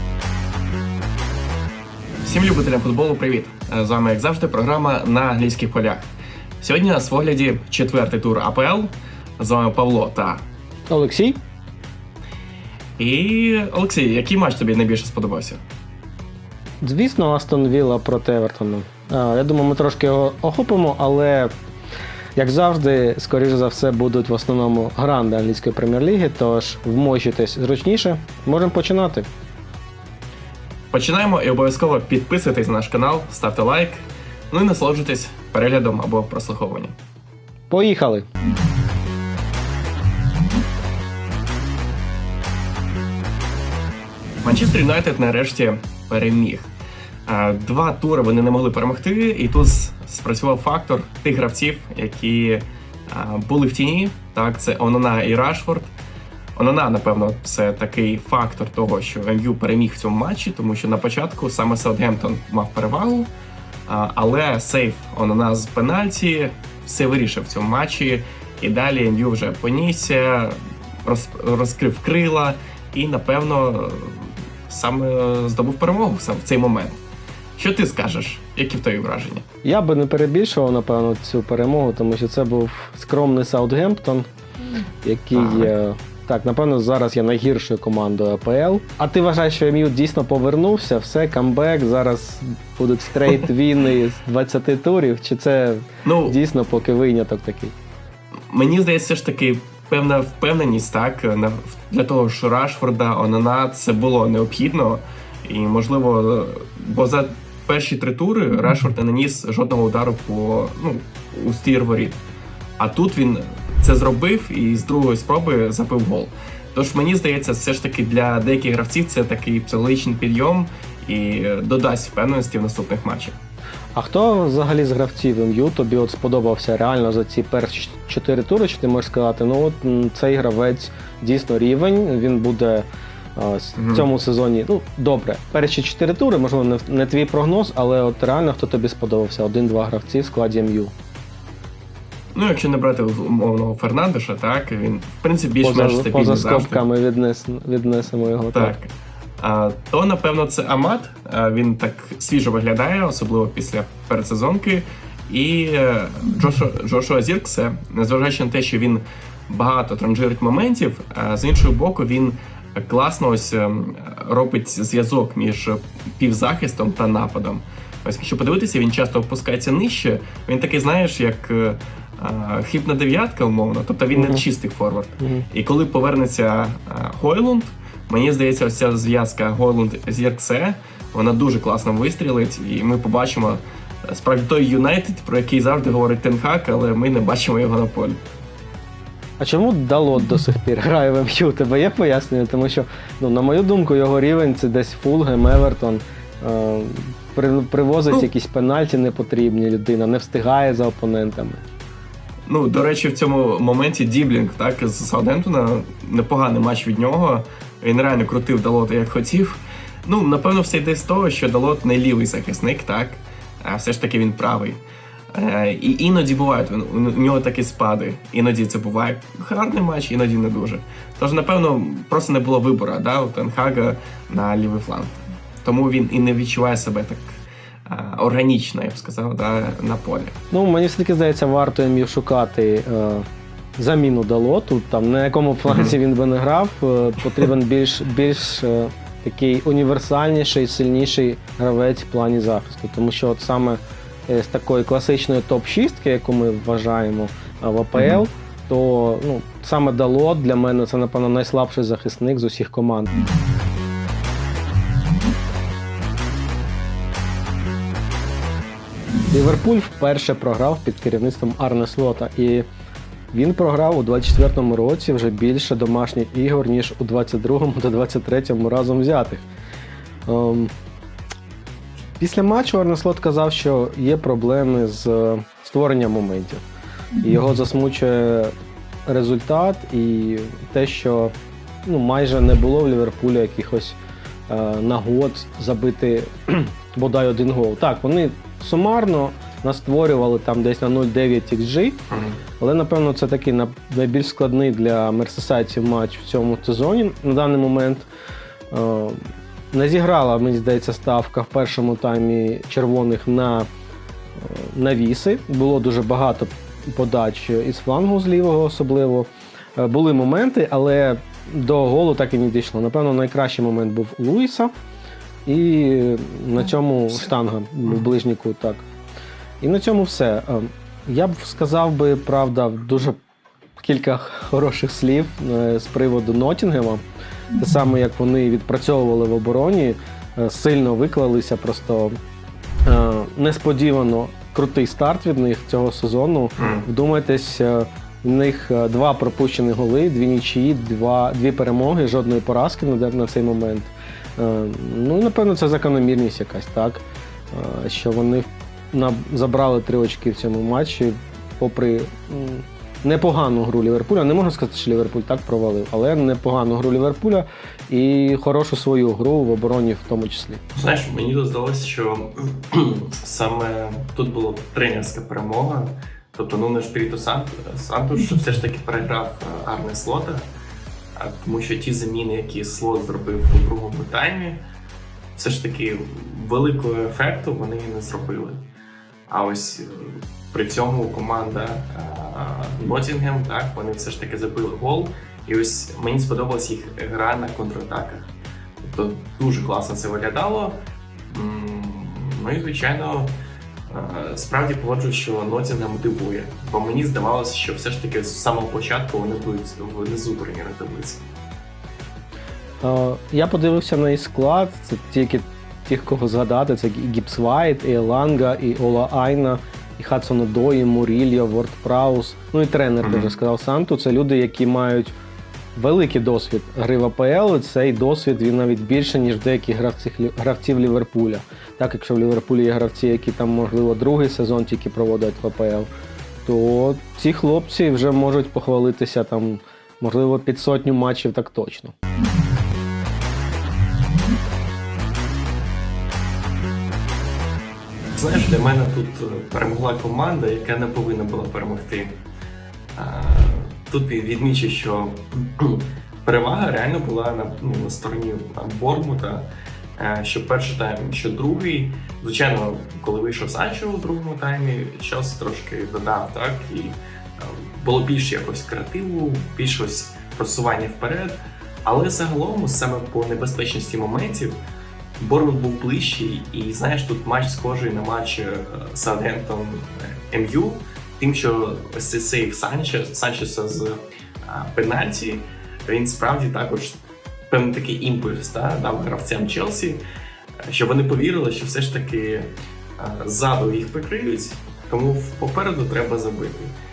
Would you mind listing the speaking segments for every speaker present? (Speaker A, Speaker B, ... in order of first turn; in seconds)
Speaker A: 2.2-10.4, 13.0-15.6, 30.9-36.9, 44.4-46.7, 47.2-55.9, 56.5-63.3, 63.9-77.0, 77.6-79.4, 85.3-85.7, 96.0-96.4, 98.5-112.2, 112.8-123.3, 133.8-134.1, 142.3-146.8, 148.5-188.2, 202.5-214.8, 215.3-230.4, 235.7-235.9, 247.9-248.2, 292.1-292.4, 336.6-336.9, 360.7-370.5, 371.1-374.6, 375.3-378.6, 379.3-393.4, 393.9-401.3, 413.0-413.3, 438.2-442.2, 442.9-464.6, 465.2-480.0, 480.7-486.7
Speaker B: 10.9-11.4, 16.8-21.5, 22.4-29.3, 37.7-38.2, 79.6-84.3, 85.0-97.7, 123.9-140.9, 145.6-148.8, 174.1-174.4, 175.2-175.4, 189.4-201.7, 230.5-233.2, 233.8-253.2, 259.3-262.6, 263.3-269.4, 270.2-270.7, 272.2-276.6, 277.2-278.5, 279.1-281.3, 281.8-292.0, 292.6-298.1, 298.7-299.2, 299.7-303.7, 304.4-314.7, 315.4-318.8, 319.6-323.2, 323.8-327.0, 327.5-332.1, 332.9-360.6, 402.8-415.1, 415.8-425.9, 426.4-431.9